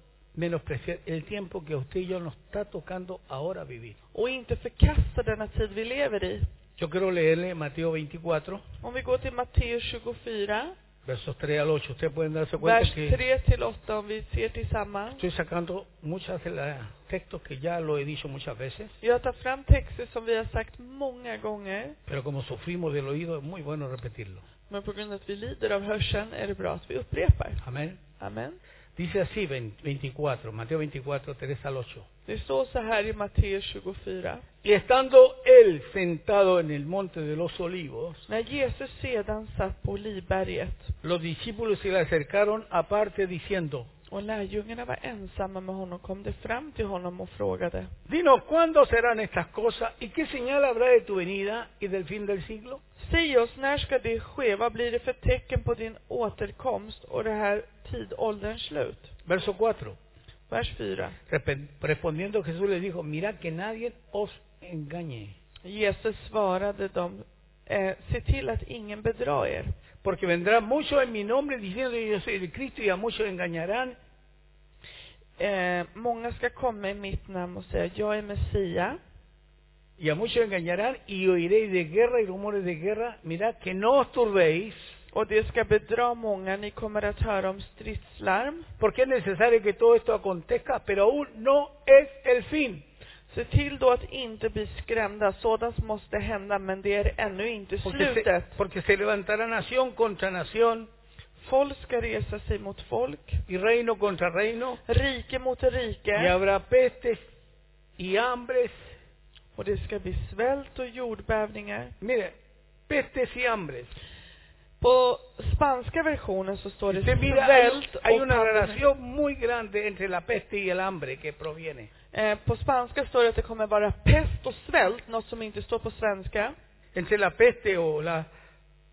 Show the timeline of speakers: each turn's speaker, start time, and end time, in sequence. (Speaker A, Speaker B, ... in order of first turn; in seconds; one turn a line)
Speaker A: 0.3-4.0
Speaker B: 4.1-6.5
Speaker A: 6.8-8.6
Speaker B: 8.8-10.7
Speaker A: 11.1-13.2
Speaker B: 12.6-15.2
Speaker A: 15.2-18.9
Speaker B: 19.0-21.9
Speaker A: 22.1-24.4
Speaker B: 24.7-27.6
Speaker A: 27.6-28.0
Speaker B: 28.2-28.6
Speaker A: 28.9-32.0
Speaker B: 32.2-34.4
Speaker A: 34.6-38.2
Speaker B: 38.3-40.9
Speaker A: 41.0-43.9
Speaker B: 44.1-47.9
Speaker A: 48.1-52.8
Speaker B: 53.0-59.1
Speaker A: 59.2-60.0
Speaker B: 60.5-61.1
Speaker A: 61.3-65.3
Speaker B: 65.6-69.7
Speaker A: 70.0-74.0
Speaker B: 75.4-79.0
Speaker A: 80.0-84.9
Speaker B: 85.1-88.7
Speaker A: 88.8-92.8
Speaker B: 93.3-98.5
Speaker A: 97.8-100.9
Speaker B: 101.4-103.4
Speaker A: 103.5-104.8
Speaker B: 104.9-106.3
Speaker A: 106.2-107.2
Speaker A: 108.0-108.9
Speaker B: 109.5-111.9
Speaker A: 112.0-112.3
Speaker A: 112.9-113.9
Speaker B: 114.8-118.8
Speaker A: 116.9-121.9
Speaker B: 122.1-126.5
Speaker A: 126.9-128.3